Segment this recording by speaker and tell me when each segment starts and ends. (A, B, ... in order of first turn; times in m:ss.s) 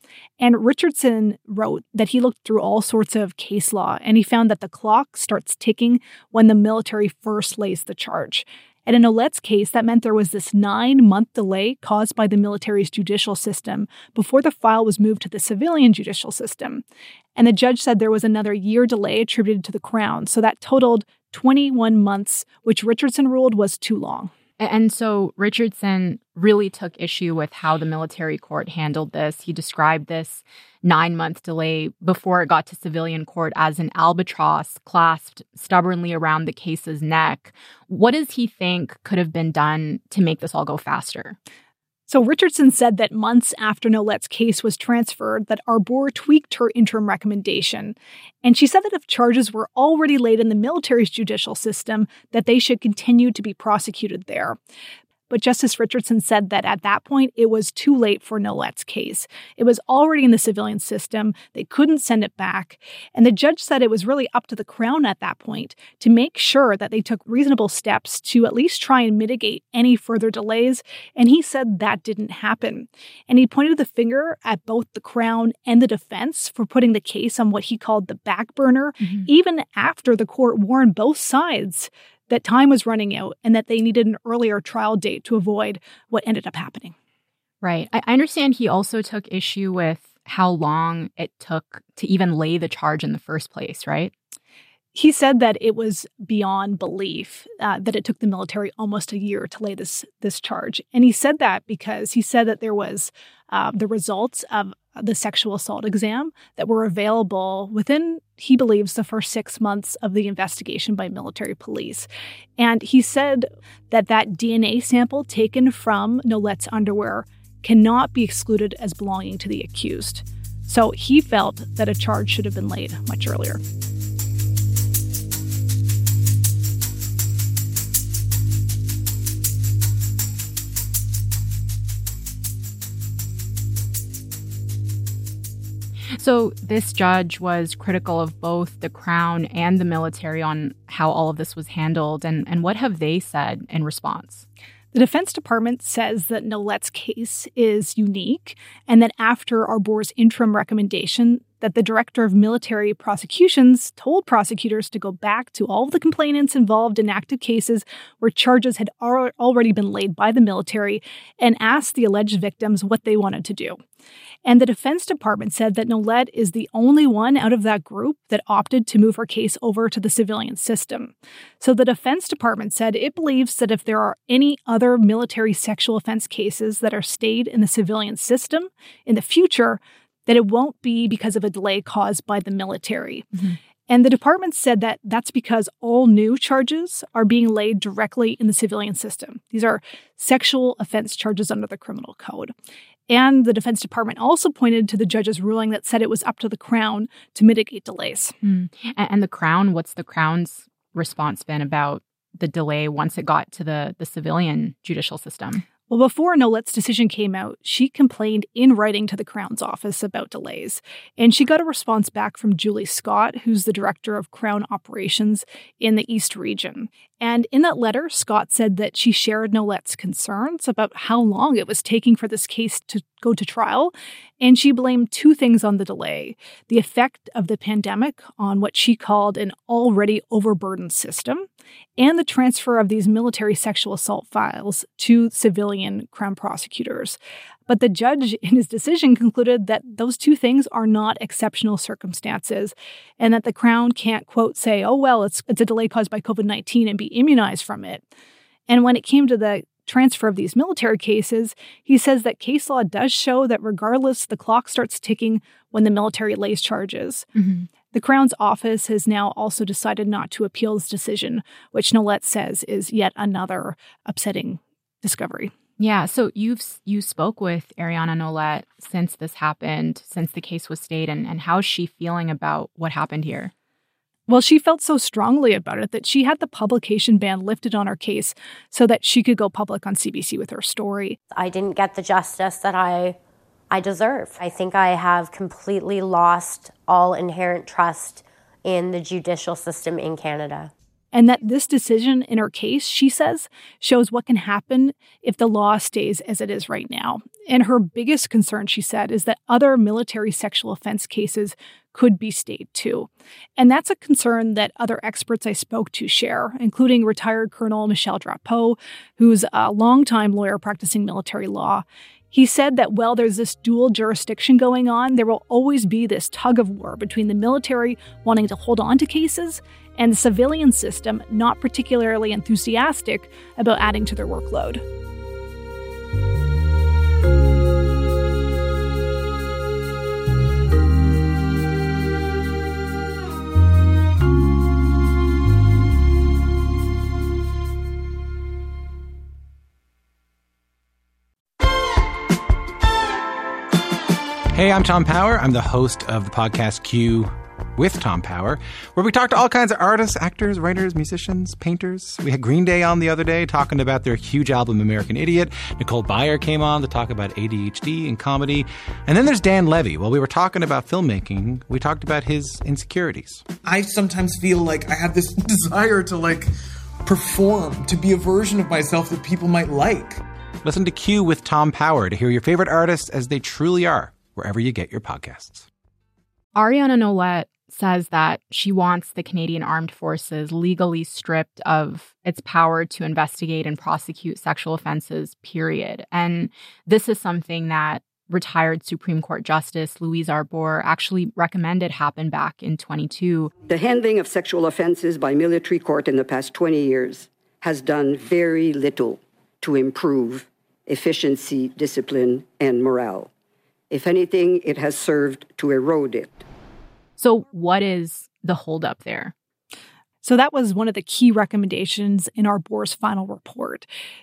0:00.4-0:16.8 A
0:17.4-0:24.3 A
0:24.6-0:41.4 B
0:42.1-0:54.6 A
0:55.3-1:26.9 A
1:19.0-1:19.3 B
1:27.6-1:34.1 B
1:34.9-2:03.6 A
2:16.2-2:24.4 B
2:24.9-2:43.8 A
2:44.4-3:03.3 A
3:03.9-3:12.5 A
3:13.1-3:18.3 A
3:18.4-3:25.6 B
3:25.9-3:51.4 A
3:52.0-4:08.1 A
4:08.7-4:17.3 A
4:17.4-4:17.7 B
4:17.9-4:25.5 A
4:25.8-4:33.5 B
4:34.3-4:41.2 A
4:41.3-4:43.2 C
4:43.7-4:50.7 C
4:51.1-5:24.8 A
5:44.5-6:03.4 D
6:03.6-6:06.5 E
6:07.0-6:10.2 E
6:10.6-6:15.7 D
6:16.5-6:33.5 B
6:33.7-6:43.3 F
6:43.9-6:46.4 F
6:47.2-6:49.3 B
6:50.2-6:53.9 A